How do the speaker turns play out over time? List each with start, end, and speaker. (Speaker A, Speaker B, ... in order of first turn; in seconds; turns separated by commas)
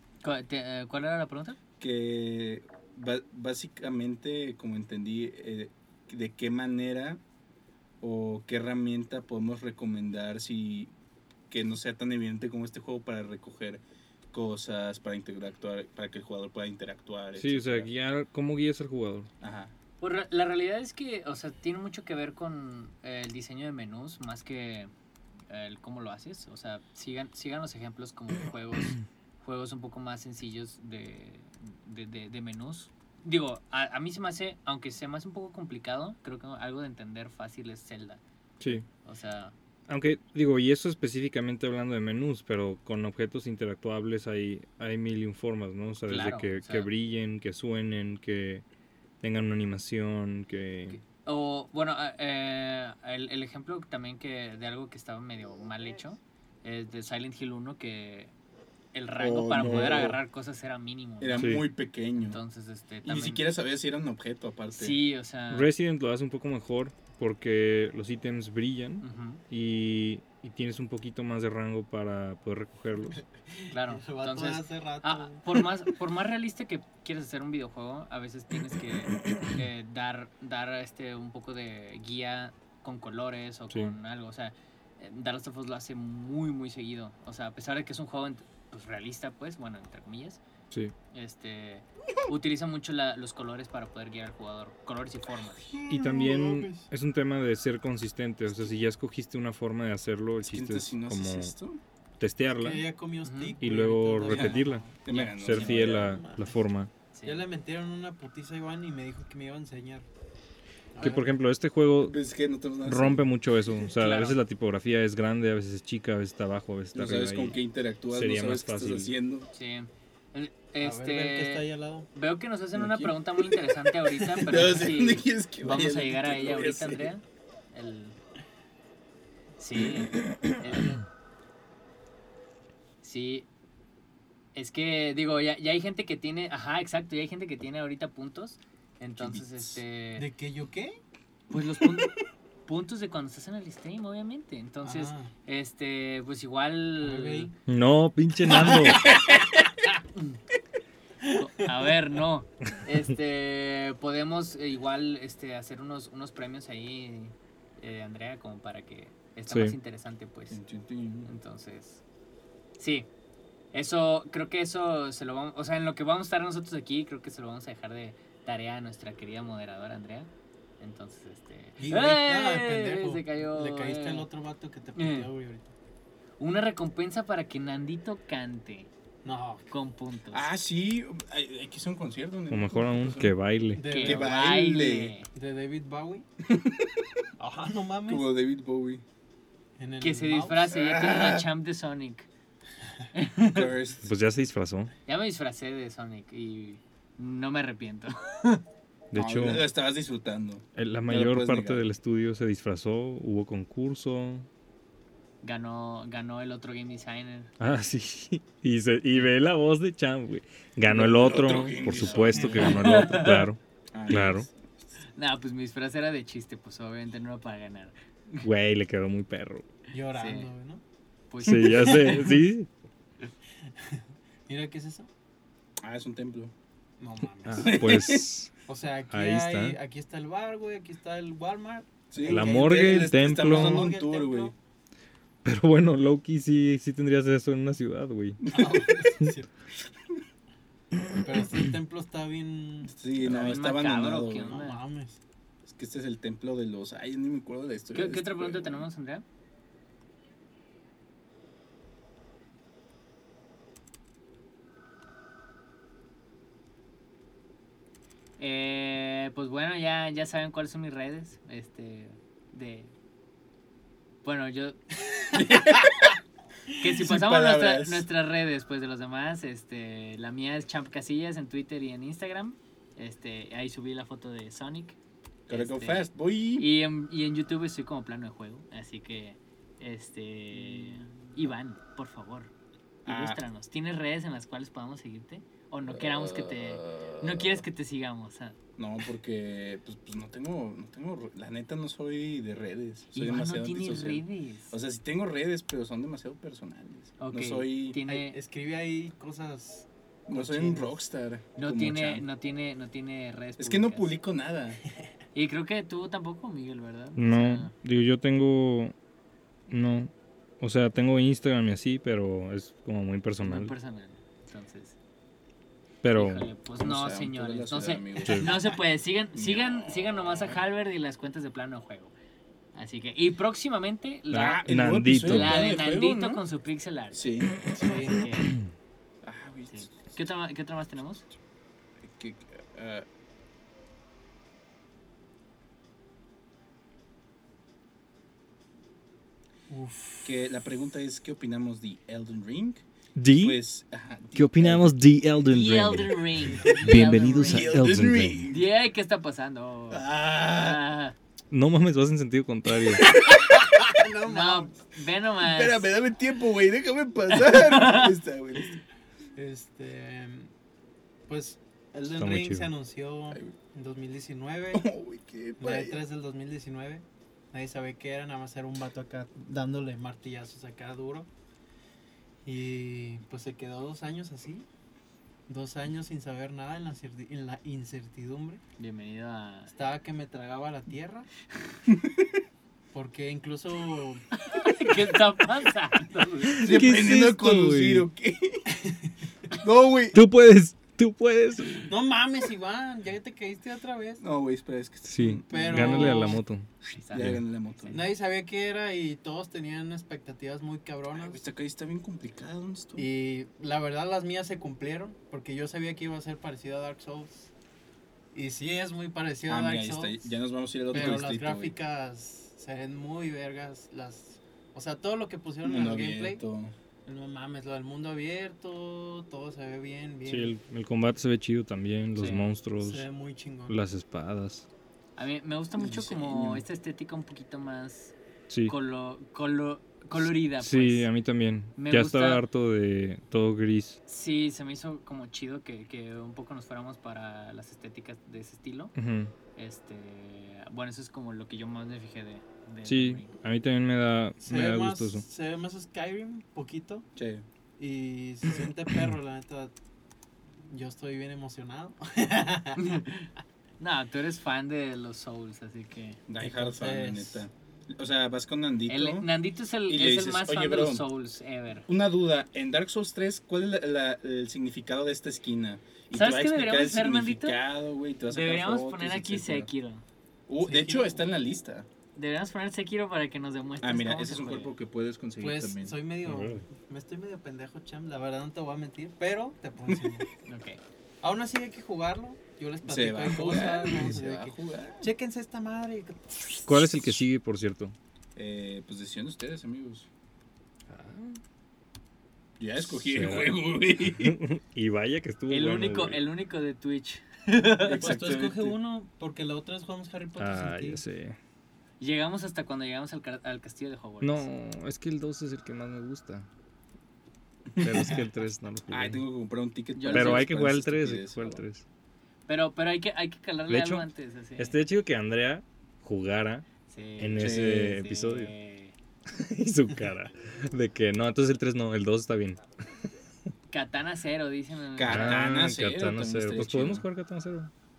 Speaker A: 0.2-1.6, Speaker B: 1.8-7.2, Speaker B: 8.0-10.9, Speaker B: 11.5-17.9, Speaker C: 17.4-19.3, Speaker B: 19.4-19.7, Speaker A: 20.0-24.9, Speaker A: 25.5-39.5, Speaker C: 39.9-48.6, Speaker A: 46.1-46.9, Speaker C: 49.2-51.0, Speaker A: 50.9-58.3, Speaker A: 58.9-61.5, Speaker B: 59.2-60.2, Speaker C: 59.6-60.1, Speaker B: 61.2-62.4, Speaker C: 61.4-61.6, Speaker A: 62.2-63.5, Speaker B: 63.0-65.0, Speaker A: 64.7-65.7, Speaker C: 65.5-73.2, Speaker A: 69.0-69.4, Speaker D: 73.5-75.6, Speaker A: 73.7-90.4, Speaker A: 91.1-95.8, Speaker D: 95.7-96.9, Speaker C: 95.9-101.5, Speaker B: 100.4-101.8, Speaker C: 102.2-102.8, Speaker D: 102.6-105.0, Speaker A: 103.2-103.6, Speaker C: 103.6-104.8, Speaker B: 104.3-106.2, Speaker A: 105.1-105.5, Speaker C: 105.4-106.9, Speaker D: 105.6-106.5, Speaker A: 107.1-107.5, Speaker D: 107.2-110.1, Speaker D: 111.0-111.3, Speaker C: 111.0-112.2, Speaker B: 112.0-113.3, Speaker C: 112.8-117.6, Speaker A: 114.0-114.4, Speaker B: 116.9-119.5, Speaker C: 118.1-119.1, Speaker A: 119.5-128.2, Speaker D: 120.8-122.1, Speaker B: 122.8-123.6, Speaker B: 124.3-127.1, Speaker A: 129.6-131.0, Speaker B: 129.8-130.2, Speaker A: 133.0-133.5, Speaker A: 134.6-140.3, Speaker B: 139.2-139.8, Speaker D: 140.2-141.0, Speaker A: 141.5-142.2, Speaker A: 142.7-147.5, Speaker D: 144.8-145.3, Speaker D: 147.0-147.5, Speaker C: 147.7-149.1, Speaker D: 148.5-149.2, Speaker A: 151.4-160.6, Speaker C: 159.5-159.8, Speaker B: 160.5-161.3, Speaker A: 161.2-162.0, Speaker A: 162.8-163.1, Speaker A: 163.7-174.3, Speaker D: 171.8-175.7, Speaker A: 174.9-175.3, Speaker A: 176.4-178.9, Speaker D: 179.2-179.7, Speaker A: 179.7-180.5, Speaker B: 180.3-183.3, Speaker C: 182.5-183.8, Speaker D: 183.8-184.3, Speaker A: 183.8-185.3, Speaker B: 184.0-185.1, Speaker D: 185.3-186.3, Speaker B: 186.5-187.2, Speaker D: 187.4-188.2, Speaker B: 188.1-189.0, Speaker D: 189.8-190.7, Speaker A: 190.0-192.3, Speaker B: 190.7-191.5, Speaker A: 193.1-193.7, Speaker B: 193.5-194.1, Speaker C: 194.0-194.9, Speaker A: 195.1-198.6, Speaker C: 199.1-199.6, Speaker B: 199.1-201.9, Speaker C: 200.8-204.5, Speaker A: 205.4-207.5, Speaker C: 207.6-214.5, Speaker B: 210.9-213.1, Speaker D: 212.1-212.6, Speaker A: 212.5-213.5, Speaker B: 213.9-214.9, Speaker A: 215.1-218.4, Speaker C: 218.4-219.7, Speaker D: 219.9-220.8, Speaker A: 220.1-220.5, Speaker A: 221.3-222.3, Speaker C: 221.4-222.7, Speaker D: 223.7-225.1, Speaker B: 225.8-226.5, Speaker D: 227.0-227.8, Speaker C: 227.4-228.5, Speaker B: 227.6-228.3, Speaker D: 228.7-234.5, Speaker C: 229.1-229.8, Speaker B: 232.1-234.5, Speaker C: 232.2-233.9, Speaker C: 235.4-238.4, Speaker B: 238.4-239.0, Speaker D: 238.5-239.5, Speaker C: 241.0-241.6, Speaker D: 241.2-242.9, Speaker B: 242.8-244.6, Speaker A: 243.2-244.8, Speaker D: 244.4-245.2, Speaker B: 245.7-248.9, Speaker A: 247.9-249.2, Speaker A: 258.4-262.9, Speaker A: 264.2-264.8, Speaker B: 265.3-266.2, Speaker A: 266.8-275.0, Speaker B: 266.9-268.1, Speaker B: 275.5-276.7, Speaker A: 275.5-282.5, Speaker B: 283.1-283.4, Speaker A: 283.1-288.6, Speaker B: 285.9-287.6, Speaker B: 288.8-298.0, Speaker A: 293.1-294.7, Speaker A: 297.2-298.4, Speaker D: 298.0-301.0, Speaker B: 300.3-302.2, Speaker A: 301.6-304.1, Speaker B: 303.6-304.8, Speaker A: 305.3-307.7, Speaker C: 307.2-308.9, Speaker C: 309.7-313.7, Speaker A: 313.4-315.0, Speaker C: 316.0-316.5, Speaker A: 316.1-322.1, Speaker B: 316.8-318.8, Speaker B: 319.4-320.6, Speaker A: 322.7-327.2, Speaker C: 324.3-325.6, Speaker B: 324.3-326.4, Speaker B: 327.1-327.5, Speaker D: 327.7-328.2, Speaker A: 327.8-328.6, Speaker B: 329.2-330.0, Speaker A: 329.7-331.3, Speaker B: 332.0-333.1, Speaker D: 339.7-340.4, Speaker B: 340.2-344.9, Speaker C: 343.2-343.6, Speaker C: 344.4-348.4, Speaker A: 345.5-347.8, Speaker D: 346.6-347.1, Speaker B: 347.4-348.7, Speaker A: 348.5-351.2, Speaker B: 349.9-350.8, Speaker C: 351.5-353.0, Speaker B: 352.9-353.8, Speaker D: 353.7-354.8, Speaker A: 354.2-355.9, Speaker B: 355.4-358.8, Speaker A: 357.3-358.1, Speaker D: 359.4-360.5, Speaker D: 361.3-364.9, Speaker C: 362.1-362.7, Speaker B: 364.7-366.0, Speaker D: 365.6-371.3, Speaker D: 372.4-374.7, Speaker D: 375.5-378.6, Speaker A: 378.8-379.7, Speaker D: 379.7-381.3, Speaker B: 381.9-382.4, Speaker D: 382.9-384.2, Speaker A: 384.4-386.6, Speaker C: 386.4-388.1, Speaker B: 386.6-388.7, Speaker B: 389.6-390.2, Speaker C: 390.1-391.9, Speaker D: 391.9-394.2, Speaker B: 394.2-396.4, Speaker C: 395.1-396.7, Speaker D: 395.5-396.4, Speaker A: 396.9-398.0, Speaker B: 397.1-398.0, Speaker D: 397.9-401.4, Speaker B: 401.1-403.1, Speaker D: 403.0-407.5, Speaker D: 408.3-410.4, Speaker B: 409.5-411.8, Speaker D: 410.9-416.4, Speaker B: 415.6-416.7, Speaker D: 417.1-420.5, Speaker C: 420.3-423.1, Speaker A: 422.2-422.4, Speaker D: 422.8-423.8, Speaker C: 423.7-424.7, Speaker A: 425.2-428.1, Speaker B: 425.8-426.6, Speaker C: 428.5-428.7, Speaker A: 428.7-431.1, Speaker C: 430.2-434.0, Speaker A: 431.8-432.4, Speaker A: 434.1-438.9, Speaker C: 438.9-439.3, Speaker A: 439.6-443.3, Speaker C: 442.9-445.3, Speaker D: 444.4-447.1, Speaker B: 447.2-447.4, Speaker D: 447.8-449.7, Speaker D: 450.7-452.8, Speaker A: 452.8-456.2, Speaker B: 456.3-459.3, Speaker D: 456.4-457.5, Speaker A: 458.9-461.9, Speaker B: 459.9-461.1, Speaker B: 461.9-469.7, Speaker A: 466.1-467.6, Speaker A: 468.3-470.1, Speaker B: 470.5-471.9, Speaker D: 470.6-471.2, Speaker A: 472.1-474.8, Speaker B: 473.8-476.0, Speaker D: 475.4-480.3, Speaker C: 476.2-476.6, Speaker A: 480.5-480.8, Speaker D: 481.2-486.7, Speaker B: 482.8-485.1, Speaker C: 486.7-487.9, Speaker B: 488.4-490.1, Speaker C: 490.9-491.4, Speaker B: 492.6-494.4, Speaker C: 492.9-496.2, Speaker A: 495.5-498.1, Speaker B: 497.8-498.8, Speaker D: 498.0-501.0, Speaker C: 500.4-501.4, Speaker A: 502.0-504.5, Speaker C: 504.2-506.5, Speaker B: 507.7-508.2, Speaker C: 507.8-509.2, Speaker B: 508.9-511.6, Speaker A: 510.0-510.5, Speaker C: 510.1-511.9, Speaker A: 512.5-514.8, Speaker C: 513.7-514.1, Speaker C: 514.6-516.7, Speaker A: 516.9-519.0, Speaker C: 517.2-518.5, Speaker B: 517.4-518.0, Speaker C: 519.3-522.6, Speaker A: 523.7-525.4, Speaker B: 525.0-527.1, Speaker C: 525.1-527.7